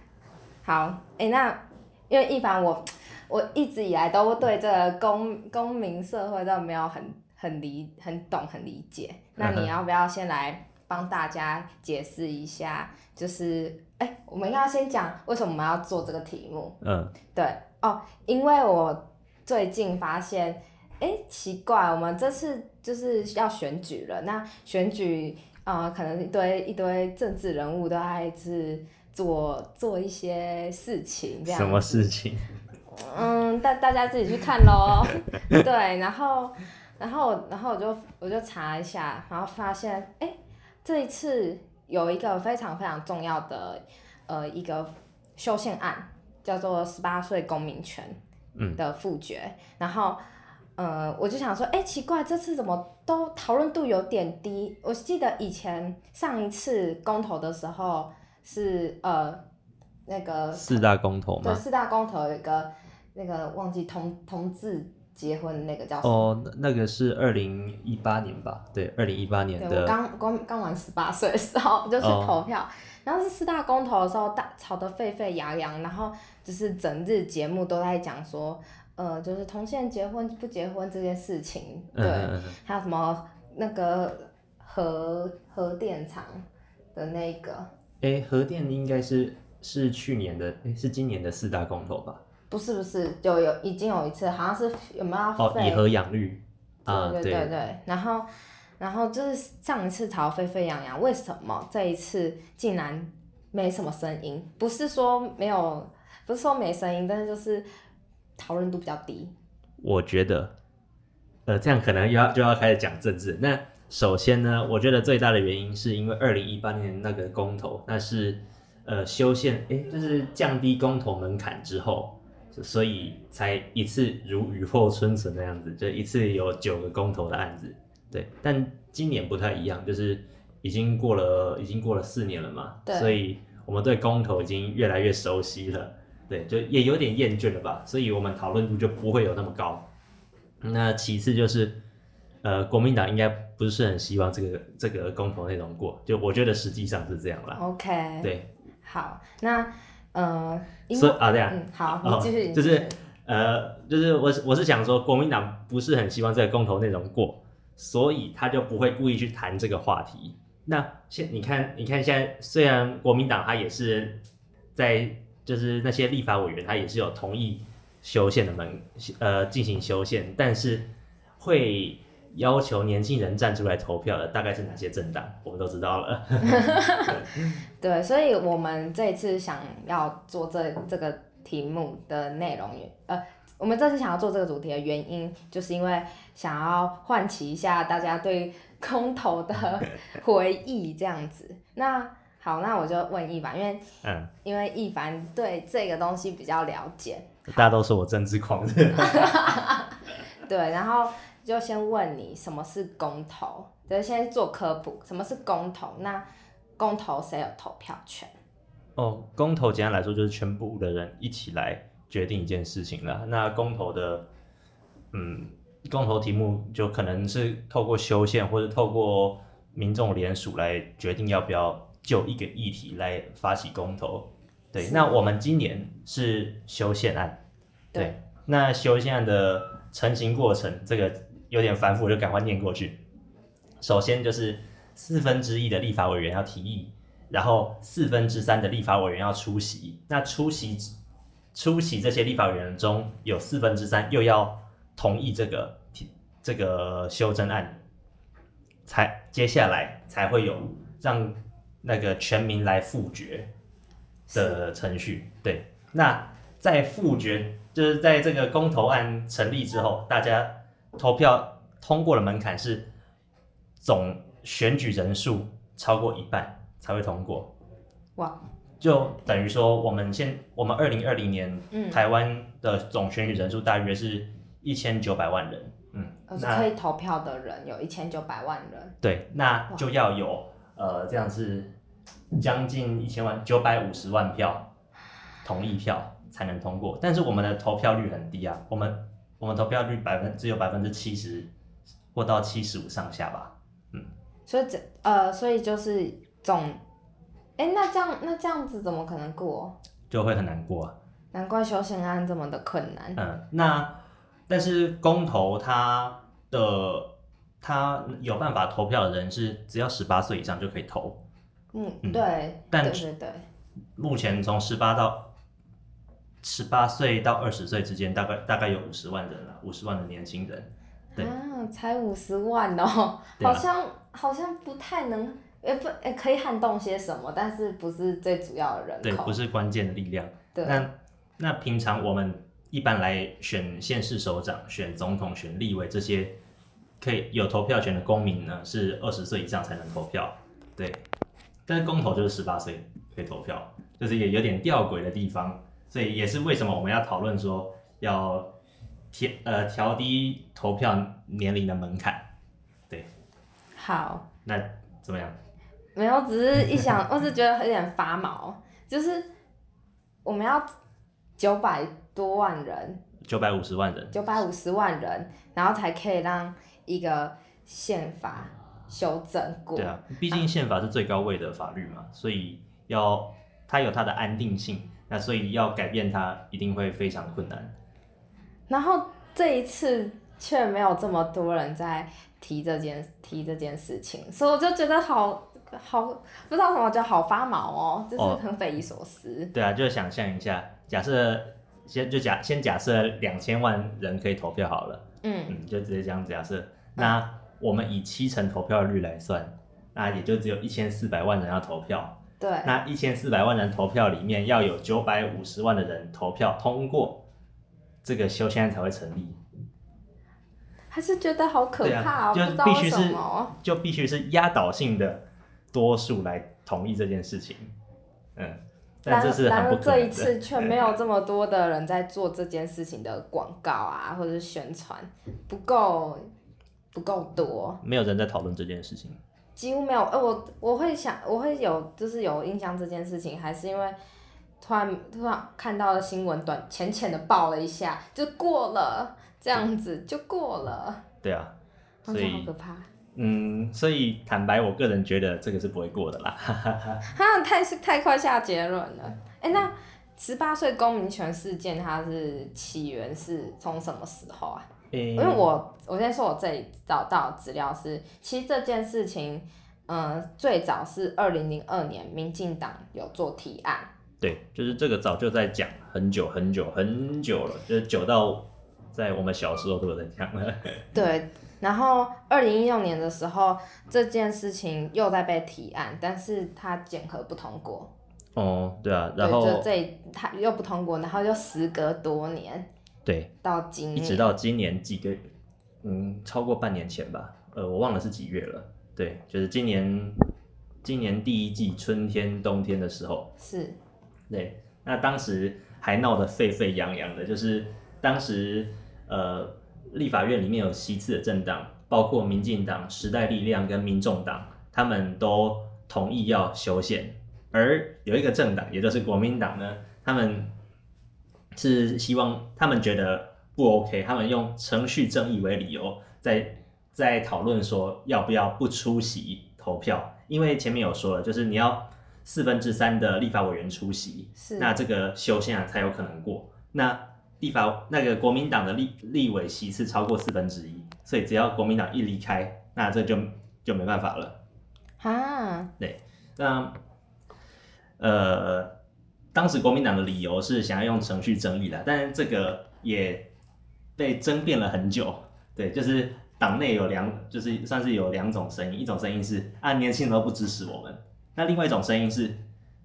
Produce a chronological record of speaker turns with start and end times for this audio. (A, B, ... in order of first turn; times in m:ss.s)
0:00.6-0:16.8 A
0:09.4-0:09.7 B
0:16.8-0:17.1 B
0:17.3-0:32.1 A
0:31.4-0:32.4 B
0:32.9-0:48.2 A
0:48.6-0:48.8 B
0:48.8-0:50.2 A
0:50.8-0:59.4 A
1:00.1-1:00.9 A
1:00.5-1:01.6 B
1:01.4-1:06.3 A
1:06.0-1:10.0 B
1:09.6-1:26.4 A
1:12.0-1:12.4 B
1:21.9-1:22.6 B
1:27.0-1:27.7 A
1:28.0-1:32.2 B
1:32.5-1:35.8 A
1:35.4-1:37.5 B
1:36.9-1:38.3 A
1:38.8-1:47.6 A
1:48.4-1:49.3 A
1:49.8-1:50.5 B
1:51.5-2:19.9 B
2:12.9-2:13.2 A
2:20.6-2:21.8 B
2:22.4-2:27.6 B
2:27.6-2:28.3 A
2:28.2-2:28.5 B
2:28.8-2:33.0 A
2:30.9-2:44.2 B
2:44.8-2:50.9 B
2:51.4-2:57.2 B
2:56.4-2:57.2 A
2:57.8-3:13.8 A
3:14.0-3:14.3 B
3:14.4-3:17.6 A
3:17.5-3:19.6 B
3:19.0-3:26.2 A
3:26.8-3:28.3 A
3:29.0-3:34.3 B
3:35.1-3:47.4 B
3:44.8-3:45.2 A
3:48.0-3:53.0 B
3:53.8-4:00.9 B
4:01.5-4:07.8 B
4:08.9-4:13.5 B
4:14.3-4:14.6 A
4:14.3-4:22.9 B
4:23.8-4:27.5 B
4:28.8-4:36.7 B
4:31.7-4:32.0 A
4:36.3-4:39.0 A
4:39.0-4:41.7 B
4:42.3-4:44.7 B
4:45.4-4:51.5 B
4:52.2-4:54.1 B
4:54.5-4:56.8 A
4:57.6-4:59.8 A
5:00.1-5:01.0 B
5:01.3-5:03.2 A
5:03.2-5:04.0 B
5:04.5-5:07.1 B
5:07.6-5:11.2 B
5:11.7-5:13.4 A
5:12.0-5:13.0 B
5:14.0-5:15.3 B
5:16.4-5:21.3 B
5:21.2-5:29.4 A
5:23.4-5:23.6 B
5:29.0-5:36.4 B
5:30.5-5:30.9 A
5:37.0-5:41.0 B
5:41.7-5:48.5 B
5:49.1-5:52.3 B
5:53.8-5:54.3 A
5:54.4-5:55.4 B
5:56.0-5:59.3 A
6:00.2-6:00.7 A
6:01.4-6:03.0 A
6:03.2-6:04.2 B
6:04.1-6:10.4 A
6:09.8-6:17.7 B
6:18.7-6:29.5 A
6:29.5-6:47.2 B
6:35.2-6:35.6 A
6:42.4-6:42.7 A
6:48.0-6:49.4 B
6:50.9-6:53.5 A
6:51.8-6:57.7 B
6:58.4-7:00.9 B
6:59.1-7:06.3 A
7:06.9-7:07.8 A
7:07.8-7:09.2 B
7:09.6-7:14.0 A
7:14.6-7:21.0 A
7:21.2-7:21.5 B
7:22.1-7:22.5 B
7:22.1-7:22.9 A
7:23.2-7:27.0 B
7:27.1-7:43.9 A
7:34.9-7:35.5 B
7:44.2-7:50.8 B
7:50.9-7:57.9 A
7:58.4-7:59.7 B
7:59.2-8:02.7 A
8:03.1-8:03.3 B
8:03.4-8:04.3 A
8:03.9-8:05.2 B
8:05.8-8:10.2 B
8:10.8-8:13.3 B
8:13.4-8:13.8 A
8:14.3-8:30.5 B
8:31.5-8:54.4 B
8:44.4-8:44.7 A
8:55.0-8:55.7 A
8:55.8-8:56.8 B
8:58.0-8:58.8 B
8:59.3-9:03.3 B
9:04.0-9:12.4 B